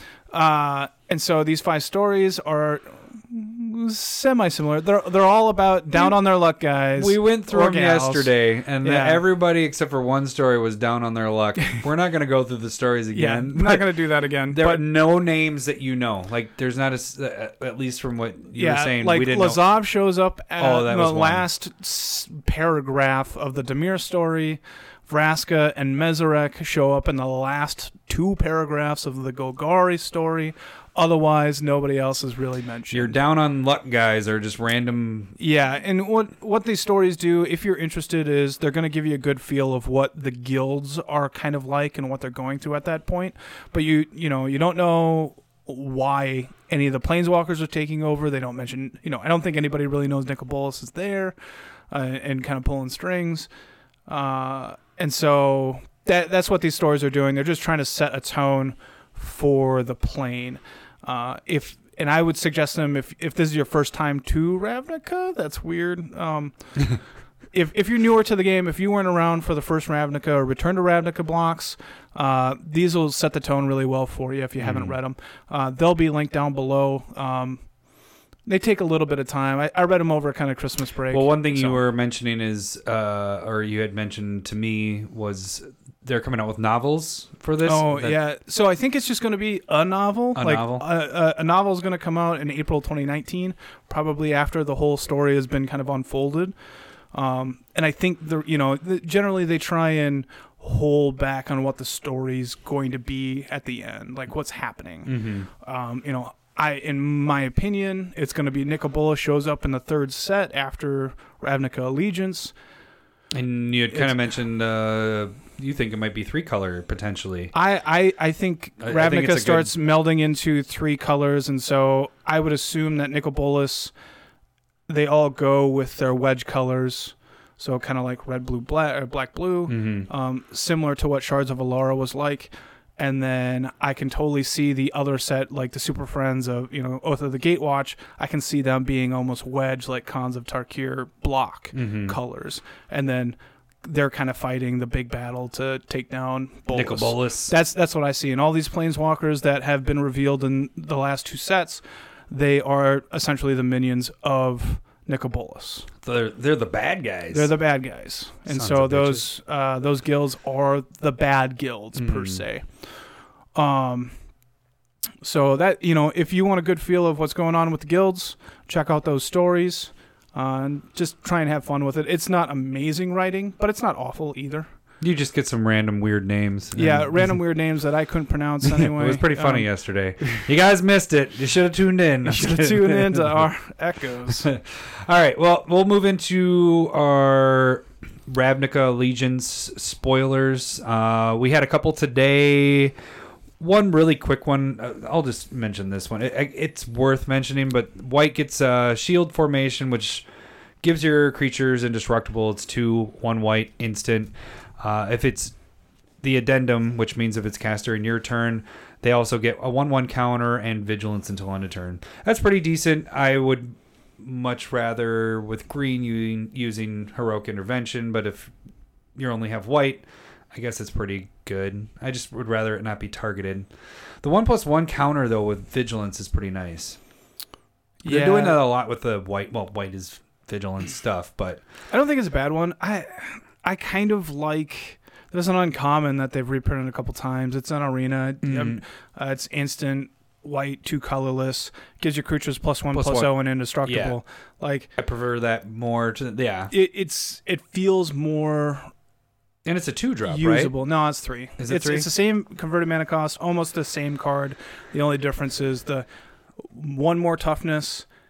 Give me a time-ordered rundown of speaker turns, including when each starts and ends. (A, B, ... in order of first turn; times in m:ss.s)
0:00.3-0:08.3 A
0:07.0-0:14.0 B
0:08.8-0:09.2 A
0:13.1-0:14.8 A
0:14.5-0:19.6 B
0:18.5-0:33.2 A
0:20.6-0:21.4 B
0:32.9-0:35.3 B
0:35.4-0:51.3 A
0:51.9-0:53.5 A
0:54.1-1:06.5 A
1:07.5-1:17.6 A
1:14.6-1:15.0 B
1:18.5-1:21.8 A
1:21.1-1:28.2 B
1:27.6-1:36.5 A
1:30.3-1:30.8 B
1:37.1-1:52.5 A
1:45.0-1:45.5 B
1:53.3-1:57.5 B
1:57.5-2:03.9 A
1:58.8-1:59.7 B
2:04.9-2:35.9 A
2:09.7-2:10.1 B
2:21.7-2:22.2 B
2:26.7-2:27.5 B
2:36.0-2:37.5 B
2:37.3-2:42.6 A
2:38.5-2:39.2 B
2:41.9-2:42.4 B
2:43.6-2:44.1 A
2:45.2-2:54.7 A
2:55.0-2:57.3 B
2:56.7-2:59.7 A
2:58.6-3:03.4 B
3:02.2-3:04.5 A
3:04.3-3:12.9 B
3:13.6-3:20.2 B
3:20.8-3:25.5 B
3:26.2-3:38.5 B
3:39.2-3:43.7 B
3:44.2-3:47.0 B
3:48.0-3:48.6 A
3:48.0-3:51.6 B
3:51.9-4:04.9 A
3:58.4-3:58.8 B
4:02.9-4:03.3 B
4:03.8-4:04.2 B
4:05.0-4:06.7 B
4:06.7-4:08.9 A
4:09.6-4:10.7 B
4:10.2-4:16.0 A
4:11.6-4:12.1 B
4:16.6-4:18.0 A